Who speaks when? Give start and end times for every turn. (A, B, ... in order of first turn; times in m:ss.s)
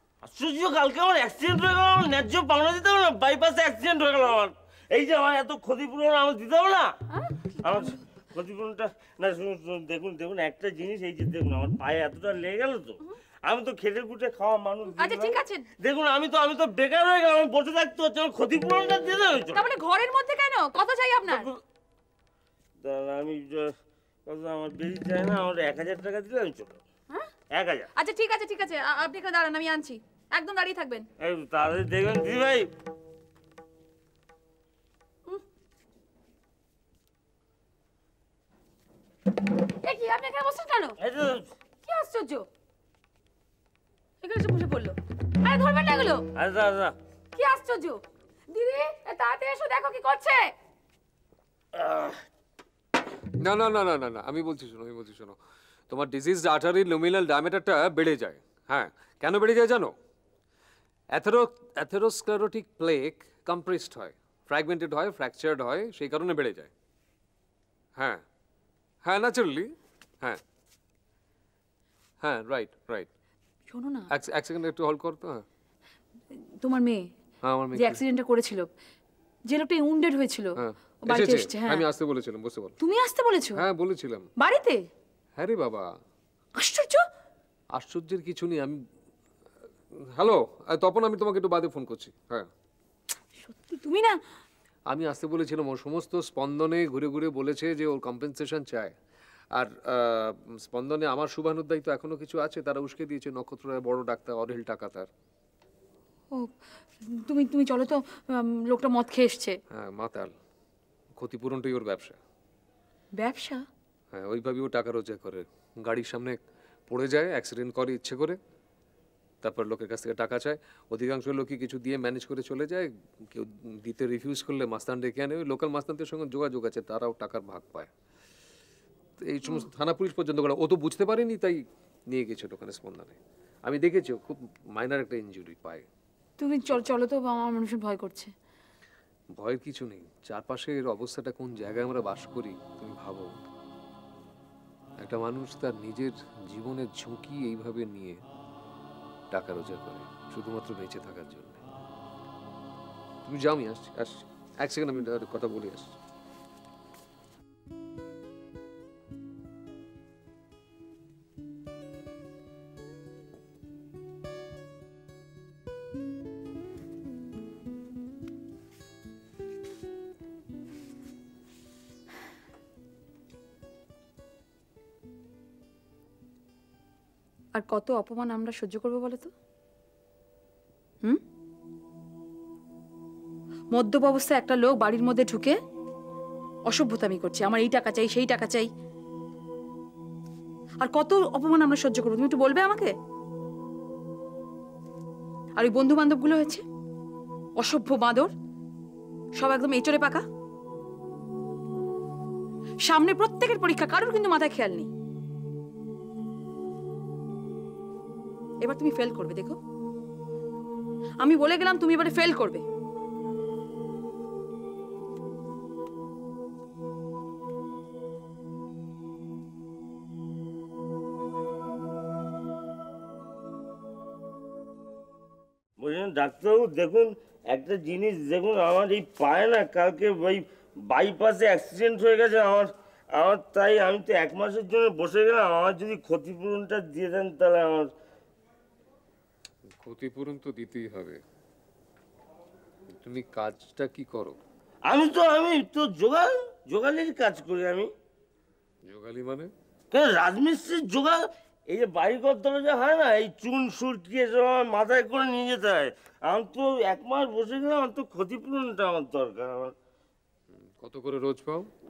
0:00.2-0:07.0 A
0:07.6-0:19.6 A
0:15.0-0:15.6 B
0:19.6-0:21.5 B
0:21.3-0:21.6 A
0:22.8-0:23.8 A
0:24.3-0:26.8 A
0:27.5-0:27.9 A
0:28.0-0:31.1 B
0:31.2-0:32.7 A
0:39.8-0:41.0 B
0:41.0-0:41.5 A
0:41.8-0:42.5 B
0:44.2-0:46.3 B
0:46.4-0:47.0 A
0:47.4-0:48.0 B
0:48.5-0:50.5 B
0:51.8-0:52.2 A
0:53.4-0:55.4 C
0:55.9-0:59.9 C
1:01.1-1:06.7 C
1:08.0-1:08.2 C
1:09.0-1:10.4 C
1:12.2-1:13.1 C
1:13.7-1:14.1 B
1:14.1-1:15.4 C
1:16.6-1:17.0 B
1:17.5-1:18.0 C
1:17.8-1:18.7 B
1:19.5-1:21.8 B
1:20.6-1:22.8 C
1:22.8-1:23.6 B
1:23.6-1:24.3 C
1:24.4-1:24.8 B
1:25.4-1:25.9 C
1:26.6-1:27.0 B
1:27.8-1:28.8 C
1:30.1-1:32.5 C
1:33.4-1:34.2 B
1:34.9-1:38.9 C
1:39.5-1:45.1 C
1:47.1-1:49.6 B
1:49.7-1:50.3 C
1:51.2-1:52.2 C
1:53.2-1:53.7 B
1:54.1-1:58.4 C
1:59.4-2:07.9 C
2:09.2-2:15.9 C
2:16.4-2:18.3 B
2:19.4-2:23.3 C
2:25.0-2:28.2 C
2:29.3-2:31.6 C
2:33.2-2:36.0 C
2:57.6-2:59.3 B
3:03.7-3:05.6 B
3:06.7-3:08.7 B
3:10.8-3:12.9 B
3:15.6-3:16.6 B
3:17.6-3:18.3 B
3:19.4-3:20.2 B
3:22.8-3:24.9 B
3:28.6-3:29.6 B
3:31.2-3:32.6 B
3:45.8-3:57.9 A
3:59.8-4:01.2 C
4:02.9-4:04.4 C
4:04.9-4:07.9 A
4:08.9-4:09.5 C
4:09.9-4:19.7 A
4:20.5-4:21.7 C